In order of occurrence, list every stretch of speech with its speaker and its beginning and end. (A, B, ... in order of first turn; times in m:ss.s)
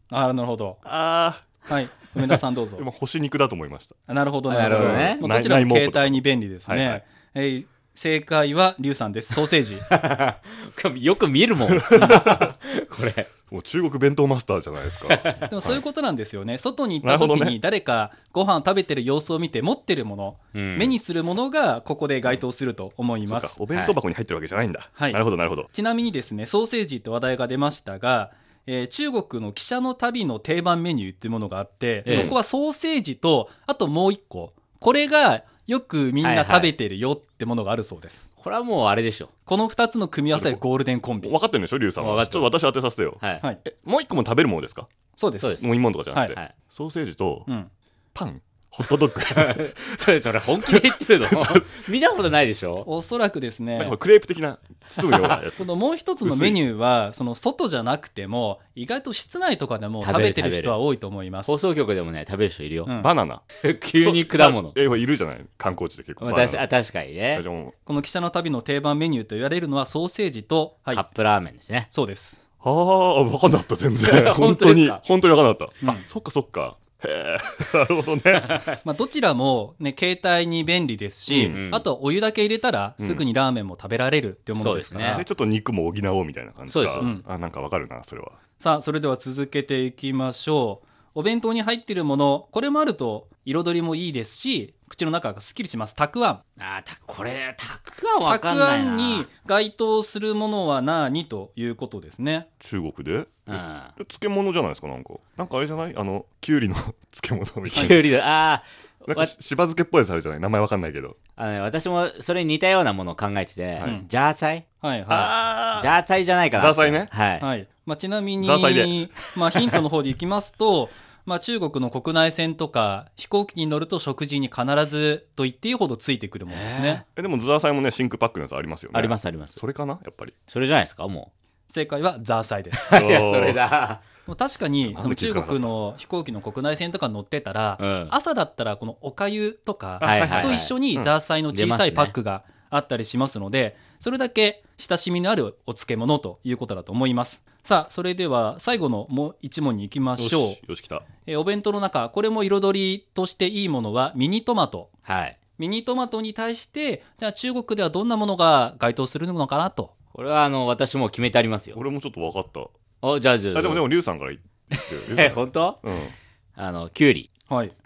0:00.1-0:00.8 A
0:00.8-0:01.6 B
0:01.7-0:02.8 A
0:02.8-0:03.9 B
0:04.1-0:09.8 A
0:04.5-0:05.2 C
0:04.6-0:07.0 B
0:09.8-0:13.3 C
0:11.7-0:12.5 B
0:13.5-0:15.8 B
0:15.1-0:15.5 C
0:15.5-0:23.6 A
0:17.0-0:17.6 B
0:20.5-0:20.9 C
0:23.2-0:25.7 B
0:23.7-0:24.0 C
0:24.9-0:25.2 A
0:25.7-0:38.2 A
0:32.0-0:32.4 C
0:32.1-0:32.4 B
0:36.2-0:36.7 C
0:38.4-0:39.3 C
0:39.5-0:41.3 A
0:40.3-0:40.6 B
0:41.2-0:44.9 B
0:42.0-0:42.5 C
0:45.2-0:46.3 A
0:45.4-0:45.6 C
0:45.6-0:47.5 B
0:48.1-0:50.1 B
0:49.3-0:52.9 C
0:50.6-0:51.6 B
0:52.8-0:54.0 A
0:53.8-0:55.6 B
0:55.6-1:01.5 A
0:56.2-0:56.6 B
1:00.0-1:00.8 C
1:01.4-1:02.9 C
1:02.8-1:03.1 A
1:03.0-1:03.4 B
1:03.6-1:04.8 C
1:04.0-1:06.7 B
1:06.2-1:07.4 C
1:07.3-1:07.7 B
1:07.8-1:11.0 A
1:10.9-1:11.9 C
1:11.9-1:12.4 A
1:12.6-1:18.6 B
1:14.0-1:15.0 C
1:18.8-1:25.2 A
1:21.3-1:21.6 B
1:21.5-1:21.8 C
1:24.6-1:25.2 C
1:25.1-1:28.4 B
1:26.7-1:27.2 C
1:27.0-1:27.2 A
1:28.6-1:36.4 A
1:36.6-1:39.3 C
1:38.2-1:42.5 A
1:42.6-1:48.1 B
1:43.5-1:43.9 C
1:47.7-1:49.3 C
1:49.0-1:51.2 B
1:51.4-1:54.6 C
1:54.8-1:55.3 A
1:55.1-1:55.9 B
1:55.8-1:57.4 C
1:56.5-1:57.1 B
1:57.4-2:07.0 A
1:58.4-1:59.2 B
2:06.5-2:07.0 C
2:07.2-2:10.3 B
2:08.9-2:09.6 C
2:10.5-2:11.3 C
2:11.7-2:12.9 A
2:12.8-2:14.0 C
2:12.9-2:13.6 B
2:14.3-2:30.6 A
2:14.9-2:15.7 B
2:17.8-2:18.1 C
2:20.0-2:20.7 C
2:20.0-2:21.1 B
2:21.5-2:22.2 C
2:30.2-2:31.0 B
2:31.2-2:34.9 A
2:35.0-2:35.4 C
2:35.6-2:39.9 A
2:40.1-2:41.8 C
2:41.7-2:42.7 B
2:43.0-2:43.9 C
2:43.5-2:46.1 B
2:44.7-2:45.8 C
2:46.6-2:47.3 C